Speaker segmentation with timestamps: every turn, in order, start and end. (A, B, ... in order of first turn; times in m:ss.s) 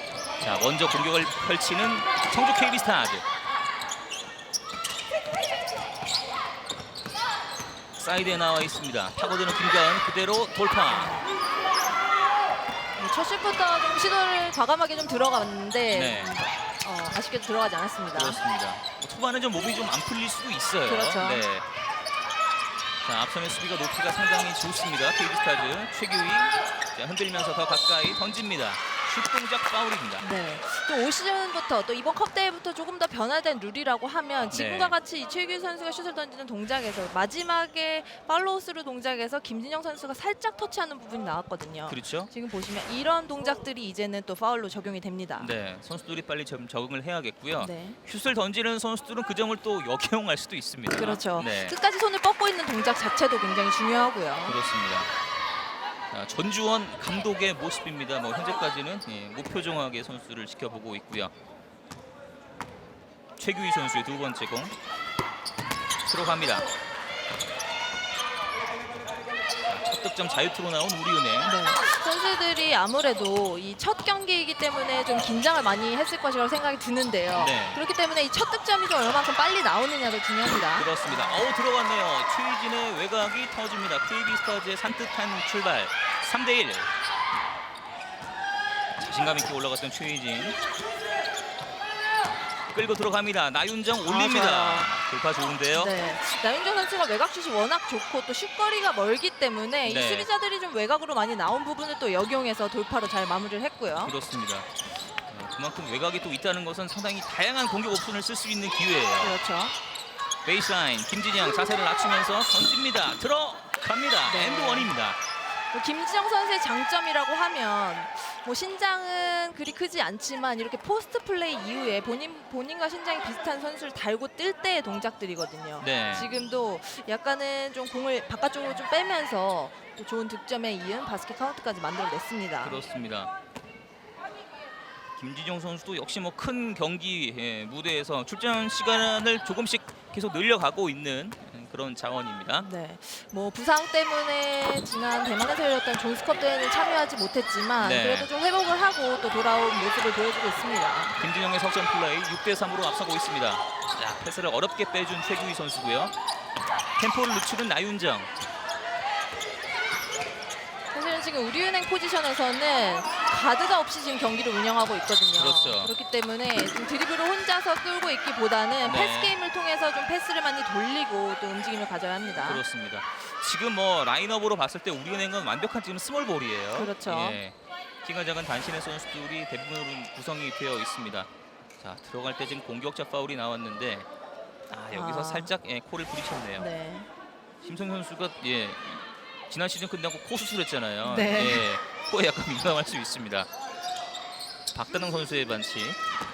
0:00.4-0:03.2 A
0:08.0-0:11.2 A
0:10.9-0:11.2 B
0:13.0-0:18.4 B
0:15.9-0:16.4 A
0:18.1-0:21.6 A
0:20.8-0:21.4 B
0:23.0-0:30.2 A
0:30.2-0:45.5 B
0:34.5-0:35.0 A
0:41.9-0:42.3 A
0:45.4-0:51.8 A
0:47.6-0:48.0 B
0:51.0-0:54.6 B
0:54.4-0:55.1 A
0:56.1-1:01.3 A
1:03.4-1:04.7 A
1:06.1-1:06.6 A
1:09.7-1:11.6 A
1:11.4-1:21.5 B
1:17.3-1:17.8 A
1:20.7-1:26.9 A
1:29.0-1:30.6 A
1:32.7-1:35.9 A
1:34.0-1:34.9 B
1:35.7-1:44.1 B
1:39.8-1:40.3 A
1:44.0-1:44.7 A
1:45.2-1:49.4 A
1:49.2-1:49.7 B
1:50.4-1:55.2 A
1:54.2-1:54.9 B
1:55.7-2:12.8 B
2:05.8-2:06.3 A
2:12.6-2:13.3 A
2:15.2-2:22.7 A
2:22.6-2:31.2 B
2:27.8-2:28.3 A
2:31.2-2:36.1 A
2:37.0-2:38.3 A
2:40.9-2:52.6 B
2:45.3-2:45.9 A
2:48.8-2:49.4 A
2:52.4-3:04.1 A
2:56.7-2:57.4 B
3:04.7-3:06.7 A
3:04.9-3:05.5 B
3:06.6-3:07.1 B
3:07.6-3:13.5 A
3:11.0-3:11.7 B
3:14.7-3:16.0 A